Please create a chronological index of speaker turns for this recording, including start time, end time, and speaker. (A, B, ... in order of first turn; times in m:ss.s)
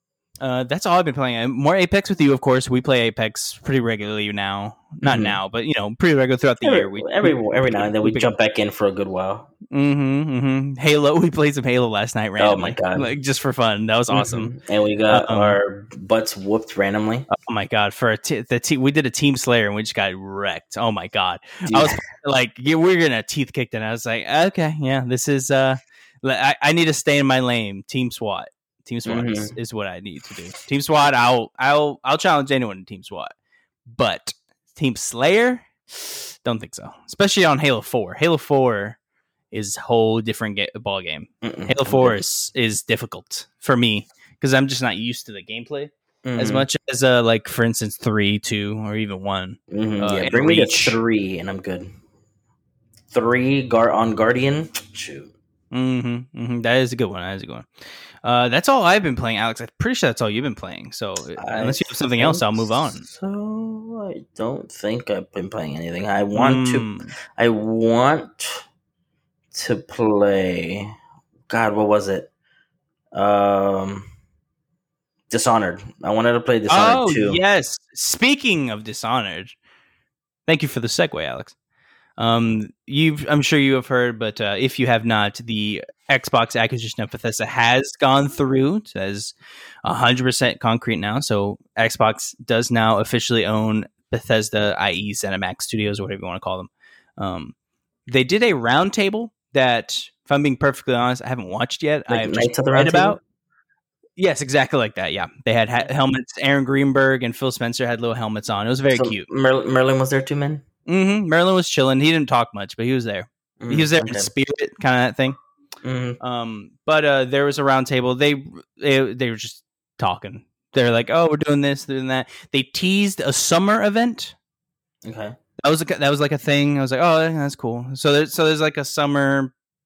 0:00.4-0:08.3 A
0:05.0-0:05.4 B
0:06.6-0:09.5 B
0:09.7-0:14.5 A
0:12.4-0:13.1 B
0:14.1-0:17.3 B
0:15.1-0:15.6 A
0:17.3-0:33.3 A
0:21.7-0:22.0 B
0:29.1-0:29.5 B
0:33.9-0:39.0 A
0:39.5-0:51.0 A
0:41.4-0:42.2 B
0:46.2-0:46.7 B
0:49.7-0:51.9 B
0:53.1-0:55.3 B
0:55.7-0:57.7 A
0:58.2-1:03.0 A
1:01.4-1:08.7 B
1:06.4-1:07.1 A
1:09.5-1:10.9 B
1:11.5-1:12.3 B
1:13.1-1:14.1 B
1:15.3-1:17.4 B
1:16.7-1:19.6 A
1:20.5-1:21.6 A
1:22.2-1:29.3 A
1:29.8-1:37.5 A
1:38.1-1:43.2 A
1:42.1-1:43.2 B
1:44.2-1:49.2 A
1:48.9-1:50.6 B
1:50.9-1:55.4 A
1:53.6-1:54.3 B
1:55.8-1:56.2 B
1:56.2-2:04.4 A
2:05.0-2:05.4 B
2:05.6-2:09.5 A